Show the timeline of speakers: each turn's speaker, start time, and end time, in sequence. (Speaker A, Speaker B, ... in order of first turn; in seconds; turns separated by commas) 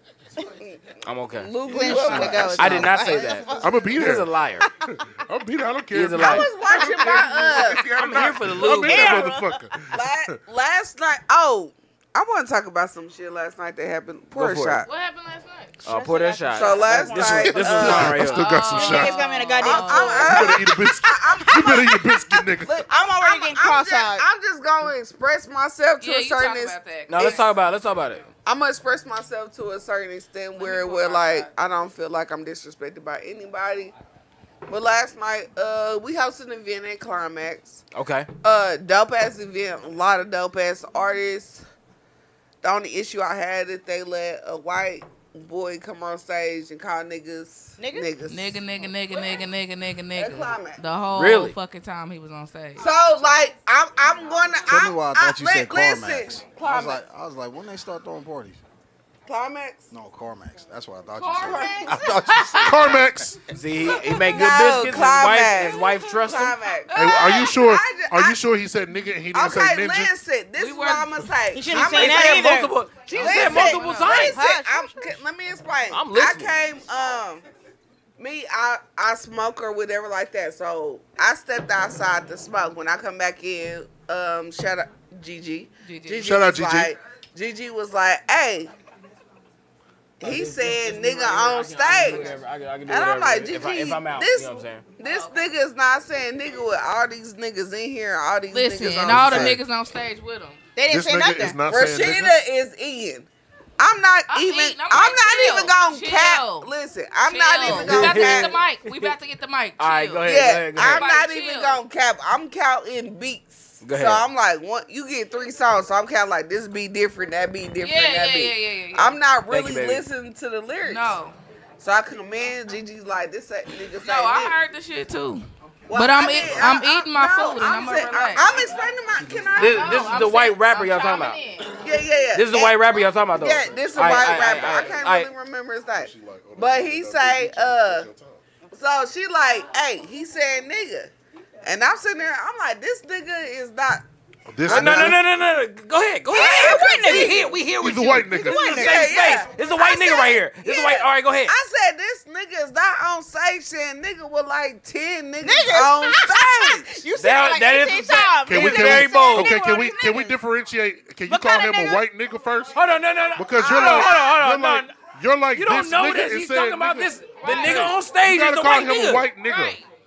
Speaker A: 0.4-0.8, Speaker B: 1.0-1.5, Speaker A: 1.4-3.3, Speaker C: 1.7-4.0, Speaker D: 1.7-3.2, Speaker B: 2.5-4.7, Speaker E: 3.6-4.3, Speaker E: 4.9-10.4, Speaker B: 5.9-6.5, Speaker A: 6.2-7.9, Speaker C: 6.8-7.3, Speaker B: 7.9-9.3, Speaker C: 8.6-9.8, Speaker A: 9.9-14.9, Speaker B: 14.3-14.8, Speaker F: 14.9-15.8, Speaker B: 15.8-18.5, Speaker C: 15.9-18.0, Speaker A: 16.5-18.2, Speaker E: 17.3-19.2, Speaker F: 18.2-20.6, Speaker C: 18.7-21.0, Speaker A: 19.6-27.4, Speaker E: 20.2-22.9, Speaker C: 21.6-22.1, Speaker C: 22.9-24.3, Speaker F: 26.0-27.4, Speaker B: 27.1-28.3, Speaker A: 28.5-33.9, Speaker F: 30.6-31.5, Speaker A: 34.7-37.8, Speaker B: 37.9-38.3, Speaker A: 38.4-41.6, Speaker A: 42.6-48.6, Speaker C: 47.8-48.1, Speaker F: 48.3-52.9, Speaker A: 50.1-50.8, Speaker B: 51.1-51.5, Speaker A: 52.8-57.0, Speaker D: 54.7-58.6, Speaker A: 59.3-59.9, Speaker D: 59.9-63.3, Speaker F: 61.2-62.0, Speaker A: 61.4-62.0, Speaker C: 61.4-62.0, Speaker E: 62.6-63.4, Speaker B: 63.5-66.6, Speaker A: 64.0-68.4, Speaker F: 66.9-67.6, Speaker E: 66.9-70.1, Speaker A: 69.3-72.5, Speaker F: 70.6-71.1, Speaker C: 71.5-75.2, Speaker B: 71.7-74.4, Speaker A: 73.1-77.4, Speaker F: 73.5-74.1, Speaker B: 75.9-76.5, Speaker A: 78.2-88.7, Speaker F: 85.8-86.3, Speaker E: 86.2-86.9, Speaker A: 90.2-99.6, Speaker B: 90.2-94.8, Speaker F: 95.0-95.4, Speaker F: 98.5-100.6, Speaker D: 99.0-99.6, Speaker C: 100.8-101.6, Speaker E: 100.9-102.4, Speaker A: 101.7-103.3, Speaker A: 103.8-108.5, Speaker F: 104.3-106.7, Speaker F: 107.3-111.8, Speaker B: 107.6-109.1, Speaker B: 109.8-111.1, Speaker A: 110.2-121.2, Speaker B: 113.8-114.2, Speaker F: 117.8-119.2, Speaker B: 119.5-120.0, Speaker F: 120.8-121.4, Speaker A: 121.8-124.5, Speaker F: 124.0-128.5, Speaker A: 125.9-130.2, Speaker B: 129.6-131.4, Speaker F: 129.6-131.8, Speaker A: 131.7-138.1, Speaker B: 132.3-135.3, Speaker E: 134.1-134.9, Speaker E: 136.0-138.4, Speaker A: 138.7-141.1, Speaker A: 141.6-144.0, Speaker E: 144.5-145.2, Speaker B: 144.7-151.6, Speaker A: 144.7-145.1, Speaker C: 146.3-147.5, Speaker A: 146.3-147.4, Speaker E: 147.8-148.8, Speaker C: 148.3-149.4, Speaker A: 148.5-157.0, Speaker C: 155.4-160.4, Speaker B: 157.2-159.6, Speaker E: 158.5-162.8, Speaker C: 161.3-162.1, Speaker B: 162.7-164.9, Speaker E: 163.4-169.8, Speaker C: 163.6-164.3, Speaker B: 165.5-169.3, Speaker F: 167.4-168.0, Speaker F: 169.4-169.8